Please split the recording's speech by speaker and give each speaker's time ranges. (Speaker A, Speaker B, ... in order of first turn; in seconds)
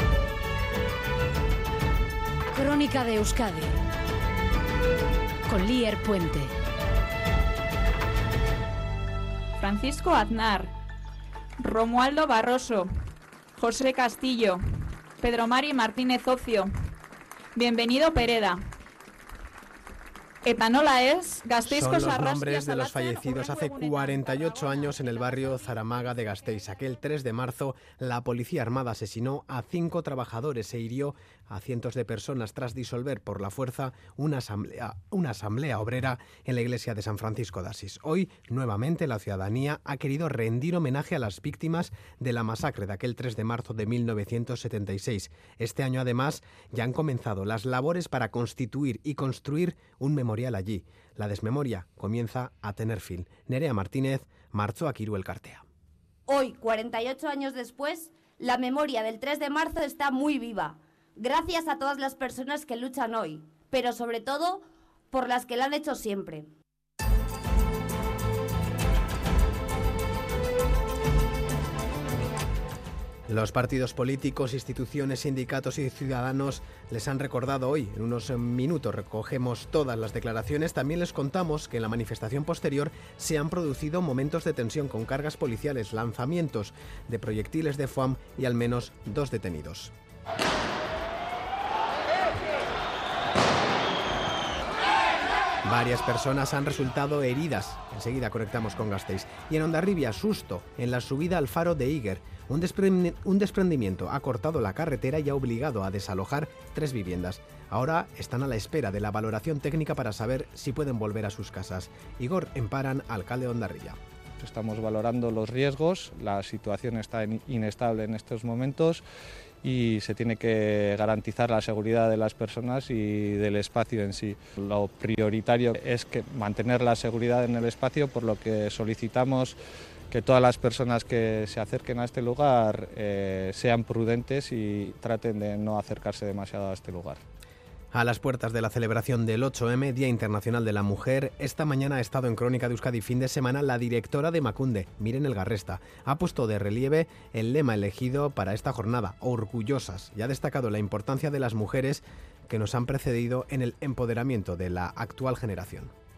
Speaker A: 2.5-3.7, 5.5-6.5
Speaker B: 9.6-10.7, 11.6-12.8, 13.6-14.6, 15.2-16.6, 17.6-18.5, 20.4-26.2
Speaker C: 21.6-55.6, 73.3-89.9, 95.6-114.0, 137.9-155.9
Speaker D: 56.3-66.5
Speaker E: 114.4-119.0, 119.6-129.6, 130.1-137.2